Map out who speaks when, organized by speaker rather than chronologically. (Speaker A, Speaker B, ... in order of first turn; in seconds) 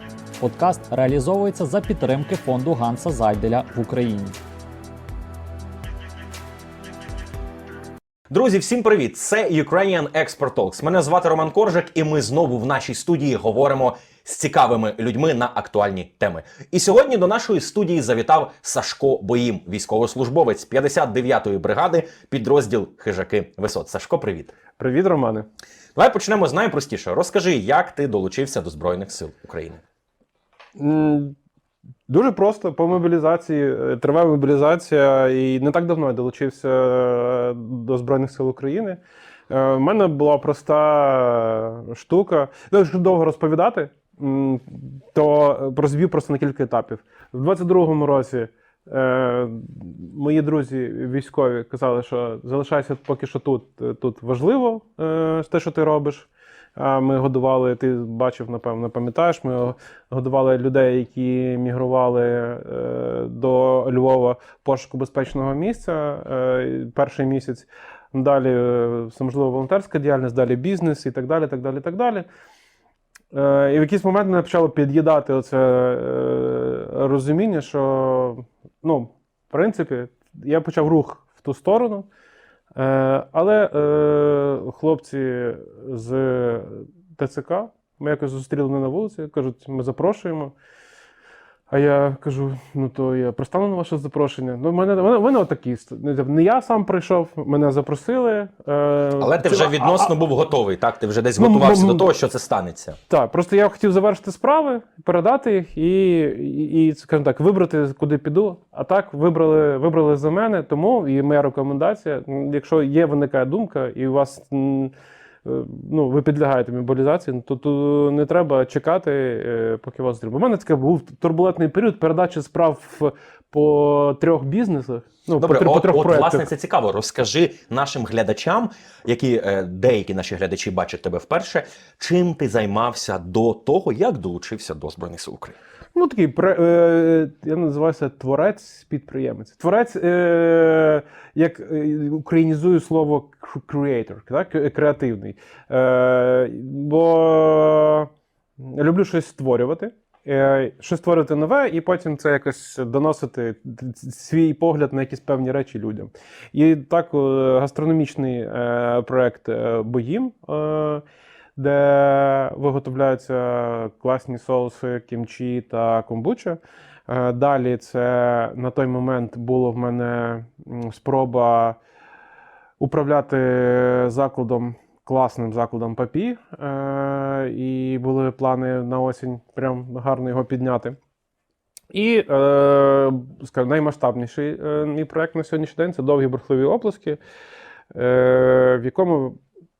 Speaker A: 0.4-4.3
Speaker B: 8.3-24.5, 25.9-29.8, 99.2-103.0, 125.4-135.6
Speaker C: 24.8-25.4, 30.8-31.4, 32.1-39.0, 39.5-72.2, 73.3-82.1, 82.8-90.5, 91.7-100.1, 101.4-102.1, 103.1-114.9, 115.4-126.5, 135.9-148.1, 148.6-161.0, 161.6-171.8, 172.8-181.0, 181.9-187.2, 187.9-189.4